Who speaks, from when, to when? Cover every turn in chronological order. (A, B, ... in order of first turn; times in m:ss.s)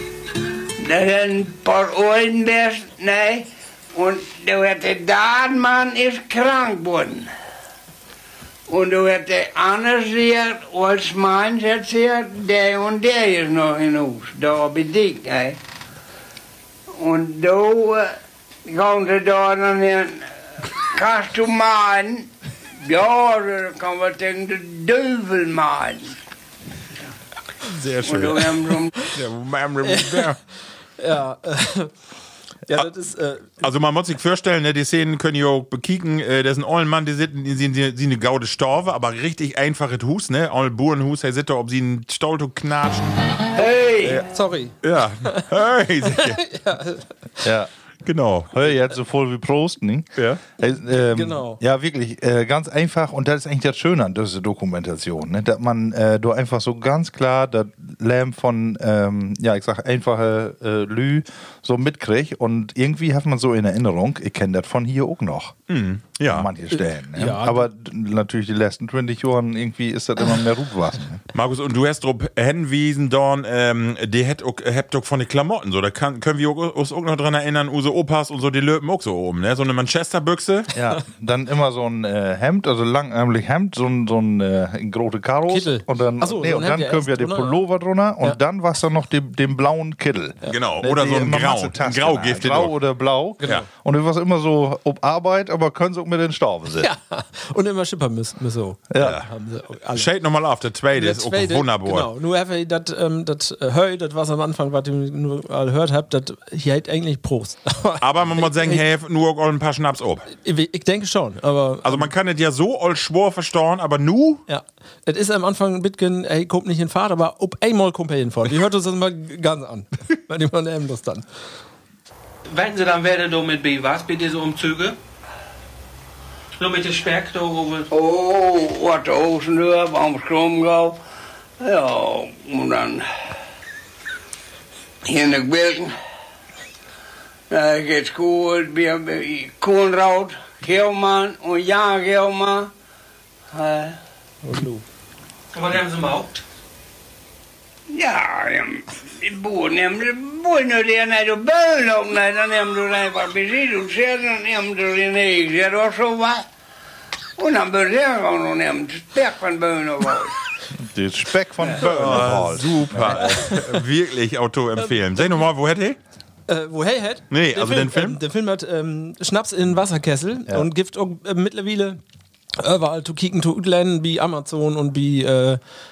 0:00.8-0:07.3 A
0:08.7-0:15.6 A
0:16.9-0:22.3 A
0:22.8-0:26.2 A
0:27.6-0:30.4 B
0:28.0-0:28.9 A
0:29.8-0:30.3 C
0:31.0-0:31.9 C
0:32.7-0:33.6 C
0:33.6-0:43.2 B
0:43.5-0:44.3 A
0:44.0-0:44.3 B
0:44.3-0:45.5 C
0:44.8-0:46.4 B
0:46.0-0:47.1 C
0:47.4-0:47.7 D
0:48.0-0:48.7 B
0:48.5-1:05.6 D
0:50.8-0:51.6 C
1:05.7-1:06.5 B
1:06.3-1:11.2 D
1:07.1-1:07.7 C
1:11.3-1:20.7 B
1:20.7-1:36.9 D
1:25.5-1:27.6 C
1:30.5-1:32.8 B
1:36.8-1:40.1 C
1:38.9-1:39.2 D
1:39.0-1:39.2 B
1:39.9-1:42.1 B
1:40.9-1:48.8 C
1:48.0-1:50.3 B
1:50.4-1:52.1 C
1:51.8-1:54.4 B
1:54.5-2:01.3 C
2:02.5-2:05.0 E
2:06.6-2:07.9 E
2:07.9-2:11.0 A
2:11.6-2:13.1 A
2:15.0-2:15.9 A
2:17.5-2:22.7 A
2:23.5-2:24.0 A
2:24.4-2:24.8 C
2:25.5-2:26.4 E
2:27.9-2:36.5 A
2:37.4-2:40.3 A
2:40.8-2:43.3 D
2:41.7-2:46.0 B
2:43.2-2:43.7 C
2:46.5-2:52.0 C
2:47.3-2:48.2 B
2:52.6-2:55.6 C